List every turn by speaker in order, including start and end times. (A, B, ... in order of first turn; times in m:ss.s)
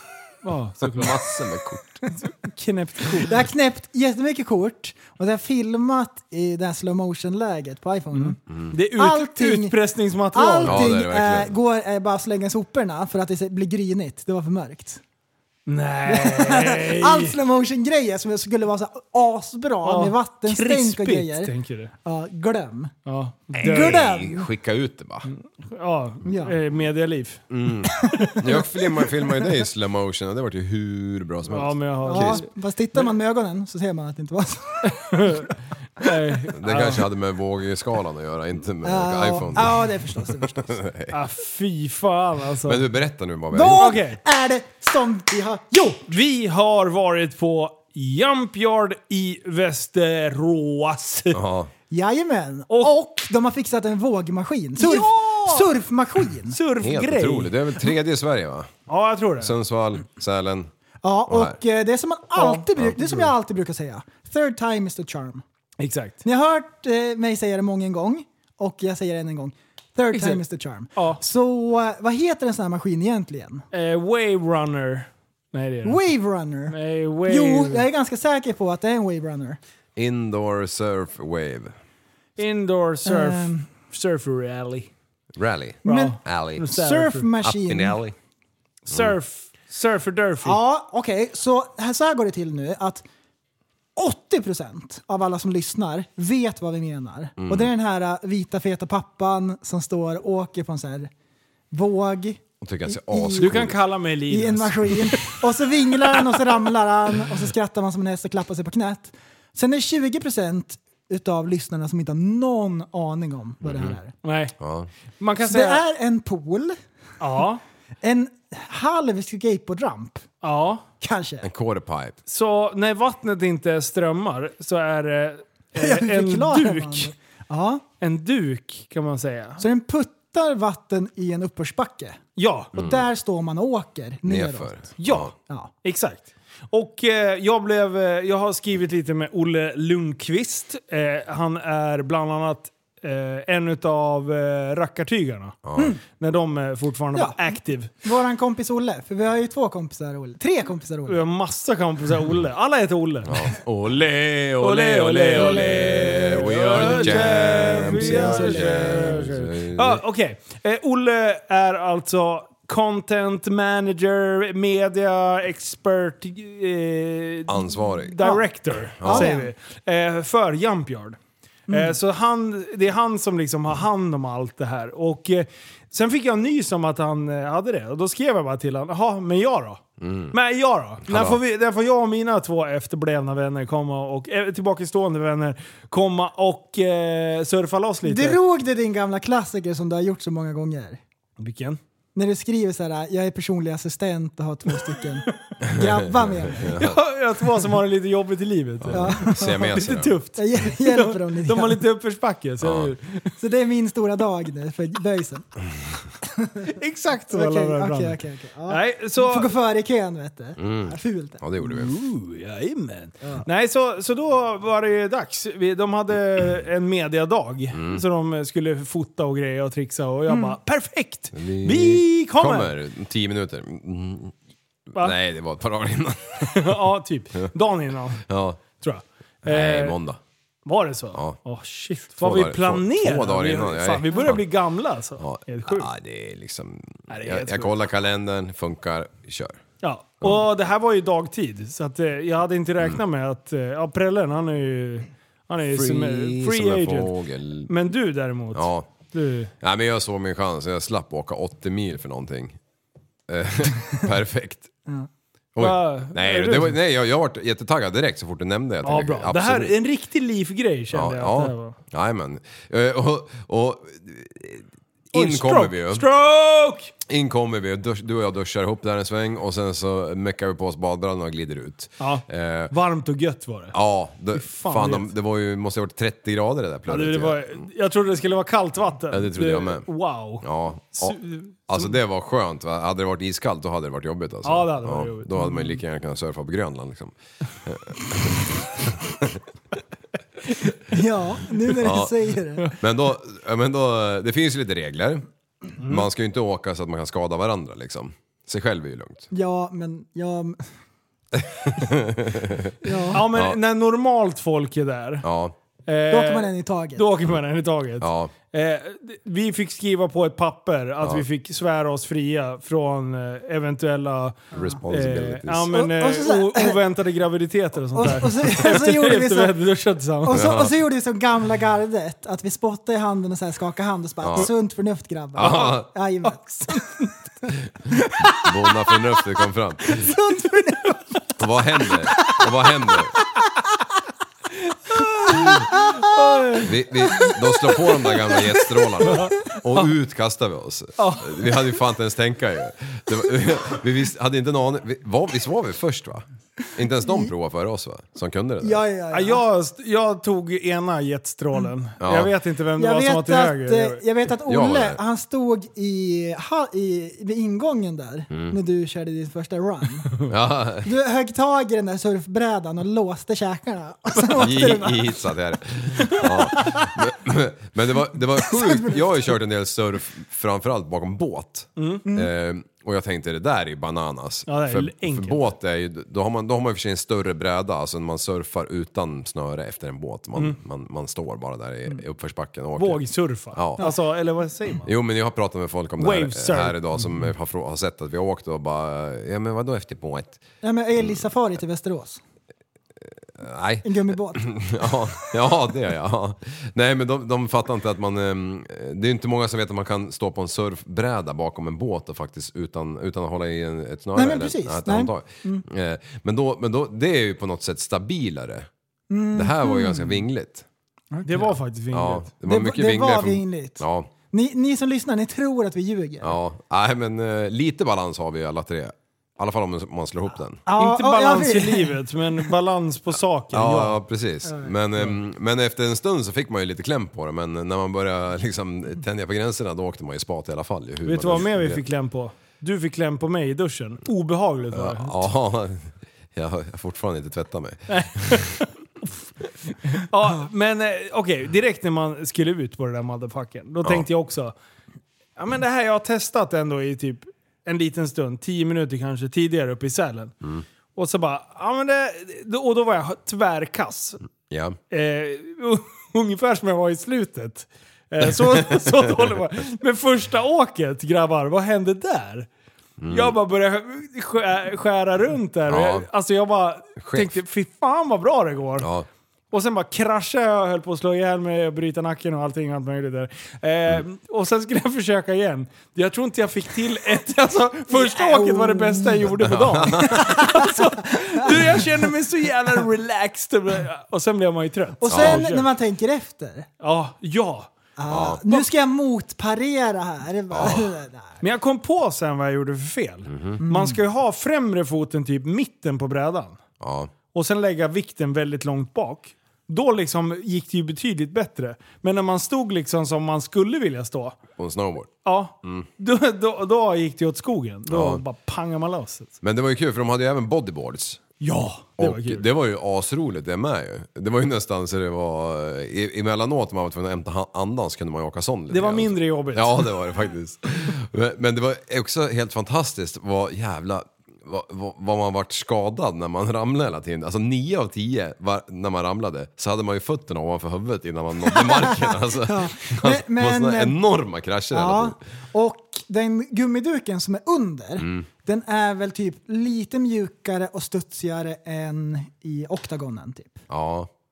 0:00.4-0:01.2 A
0:00.8-0:02.0 B
0:02.1-0:03.3 A
0:03.2-0:08.4 C
0:08.1-0:10.9 A
0:08.5-0:08.7 B
0:09.0-0:09.7 C
0:10.3-0:15.0 C
0:10.6-0:11.5 B
0:15.6-0:17.4 A
0:16.0-0:21.5 C
0:19.8-0:21.9 A
0:22.0-0:22.9 C
0:23.0-0:24.0 A
0:23.6-0:24.5 C
0:23.6-0:25.3 B
0:25.3-0:27.4 A
0:26.2-0:26.5 C
0:27.5-0:32.4 B
0:31.5-0:32.4 A
0:32.0-0:35.4 C
0:34.8-0:37.0 A
0:36.5-0:41.1 B
0:38.8-0:40.8 C
0:41.1-0:42.8 A
0:42.6-0:43.9 B
0:43.5-0:46.0 C
0:43.8-0:44.2 A
0:46.1-0:51.4 A
0:51.3-0:51.7 B
0:51.9-0:56.6 C
0:52.7-0:52.9 A
0:54.8-0:55.7 A
0:56.5-0:57.6 A
0:56.8-0:58.7 B
0:58.9-0:59.5 A
0:59.4-1:00.7 B
1:01.0-1:05.4 C
1:01.3-1:01.6 B
1:02.4-1:03.2 A
1:05.8-1:06.2 A
1:06.2-1:13.6 C
1:10.1-1:10.4 A
1:10.9-1:11.2 A
1:13.7-1:16.0 A
1:15.8-1:19.6 C
1:16.7-1:17.8 A
1:20.0-1:21.7 B
1:22.4-1:24.9 A
1:23.0-1:23.7 C
1:25.4-1:26.7 B
1:25.8-1:27.3 A
1:25.8-1:26.1 C
1:26.6-1:28.0 C
1:27.4-1:28.1 B
1:28.9-1:30.6 A
1:28.9-1:29.1 B
1:30.4-1:33.0 C
1:34.0-1:41.1 C
1:37.4-1:37.7 B
1:41.7-1:43.6 C
1:42.6-1:43.8 B
1:43.4-1:45.4 A
1:44.3-1:54.1 C
1:53.6-1:54.0 B
1:54.2-1:54.5 A
1:54.6-1:54.9 B
1:55.2-1:55.8 A
1:55.4-1:56.8 C
1:57.2-1:57.6 A
1:58.0-2:00.3 C
2:00.4-2:00.8 A
2:01.0-2:01.5 C
2:01.4-2:02.2 B
2:02.2-2:07.1 A
2:05.8-2:07.8 C
2:08.0-2:09.6 A
2:09.6-2:12.2 C
2:12.4-2:12.7 A
2:12.7-2:14.9 C
2:12.8-2:13.0 B
2:14.2-2:15.3 B
2:15.0-2:27.9 A
2:25.6-2:25.9 B
2:28.0-2:31.2 C
2:31.1-2:33.5 A
2:33.2-2:40.0 B
2:34.6-2:51.2 A
2:36.7-2:39.2 C
2:47.5-2:48.2 B
2:49.0-2:49.3 B
2:49.0-2:49.5 C
2:51.7-2:52.0 C
2:51.7-3:08.4 A
3:00.0-3:00.3 B
3:01.0-3:01.4 B
3:08.0-3:11.0 C
3:11.4-3:11.8 A
3:12.1-3:16.7 C
3:15.6-3:15.9 B
3:16.6-3:17.0 B
3:16.8-3:23.3 A
3:18.8-3:20.2 B
3:18.9-3:19.7 C
3:20.4-3:21.8 C
3:22.6-3:22.9 B
3:23.4-3:25.4 C
3:26.7-3:29.5 A
3:27.3-3:31.4 C
3:30.6-3:31.9 B
3:31.6-3:42.7 A
3:37.7-3:38.0 B
3:40.3-3:40.5 C
3:41.3-3:44.3 B
3:44.9-3:46.8 B
3:46.4-3:50.0 A
3:48.3-3:48.6 B
3:49.4-3:50.2 B
3:50.6-3:55.9 A
3:51.1-3:51.4 B
3:52.1-3:54.5 B
3:55.2-3:59.6 B
3:57.1-3:57.7 A
3:59.8-4:07.1 A
4:05.7-4:07.7 B
4:07.7-4:09.5 A
4:08.5-4:08.9 B
4:09.6-4:12.6 B
4:13.3-4:14.7 B
4:15.6-4:19.7 B
4:15.6-4:16.8 A
4:18.8-4:21.8 A
4:20.9-4:26.0 B
4:25.1-4:26.9 A
4:27.1-4:32.7 B
4:32.0-4:33.8 A
4:33.7-4:37.5 B
4:34.3-4:35.1 A
4:36.9-4:41.9 A
4:39.1-4:49.4 B
4:44.4-4:45.7 A
4:50.9-4:52.7 C
4:51.8-4:52.1 B
4:52.7-4:55.2 B
4:55.8-4:56.1 A
4:55.8-4:59.3 B
4:59.3-5:00.6 C
5:01.4-5:03.6 B
5:02.8-5:03.2 C
5:03.1-5:05.2 A
5:05.2-5:05.5 B
5:05.9-5:20.4 A
5:06.1-5:07.0 C
5:08.0-5:08.3 B
5:14.5-5:14.8 C
5:14.5-5:15.7 B
5:15.7-5:16.8 C
5:17.9-5:19.6 C
5:20.2-5:26.8 C
5:20.3-5:20.7 B
5:24.2-5:24.5 B
5:25.4-5:25.9 B
5:25.4-5:27.1 A
5:28.4-5:30.1 B
5:29.9-5:31.2 C
5:31.4-5:33.1 B
5:34.9-5:36.7 A
5:35.0-5:36.1 C
5:36.6-5:48.8 B
5:39.0-5:39.9 A
5:41.0-5:41.5 A
5:48.6-5:49.4 C
5:49.1-5:54.0 A
5:52.0-5:52.3 B
5:52.8-6:00.2 C
5:54.5-5:55.0 B
5:58.3-5:58.6 B
6:00.3-6:00.9 B
6:00.8-6:05.2 C
6:04.4-6:23.8 B
6:06.2-6:06.9 C
6:08.4-6:09.4 C
6:11.8-6:12.0 A
6:12.0-6:12.3 C
6:14.5-6:15.5 A
6:22.8-6:24.9 A
6:24.8-6:30.4 B
6:26.0-6:26.8 A
6:30.6-6:32.2 C
6:33.4-6:48.7 B
6:33.8-6:34.9 C
6:44.1-6:45.6 C
6:49.1-6:50.2 C
6:49.3-6:50.6 B
6:51.1-6:51.4 C
6:51.2-6:52.3 A
6:51.9-6:54.1 B
6:52.4-6:56.4 C
6:56.2-7:00.6 B
7:00.7-7:01.9 C
7:00.7-7:04.0 A
7:03.5-7:11.8 B
7:04.4-7:04.7 C
7:11.0-7:15.3 A
7:14.7-7:18.5 B
7:17.9-7:18.7 A
7:19.9-7:24.5 A
7:25.4-7:30.3 A
7:30.9-7:34.2 A
7:34.5-7:34.8 B
7:34.9-7:42.5 A
7:38.5-7:38.9 B
7:43.0-7:43.4 B
7:43.1-7:48.9 A
7:45.7-7:46.1 B
7:47.0-7:47.4 B
7:48.8-7:49.0 B
7:49.5-8:05.7 A
7:57.9-7:59.2 C
7:59.4-8:00.3 B
8:00.0-8:00.8 C
8:05.0-8:06.7 C
8:05.1-8:05.4 B
8:06.8-8:07.7 A
8:08.0-8:11.3 C
8:08.1-8:08.4 B
8:10.5-8:10.9 B
8:11.4-8:16.6 A
8:13.3-8:13.6 B
8:13.6-8:14.0 C
8:16.8-8:17.1 B
8:17.3-8:24.4 A
8:24.6-8:25.1 B
8:25.2-8:29.3 A
8:27.9-8:28.2 B
8:29.4-8:31.2 B
8:31.4-8:32.4 A
8:32.0-8:55.2 B
8:38.7-8:39.9 A
8:51.5-8:54.0 C
8:54.7-9:03.6 C
8:58.0-8:58.3 B
9:03.7-9:04.1 B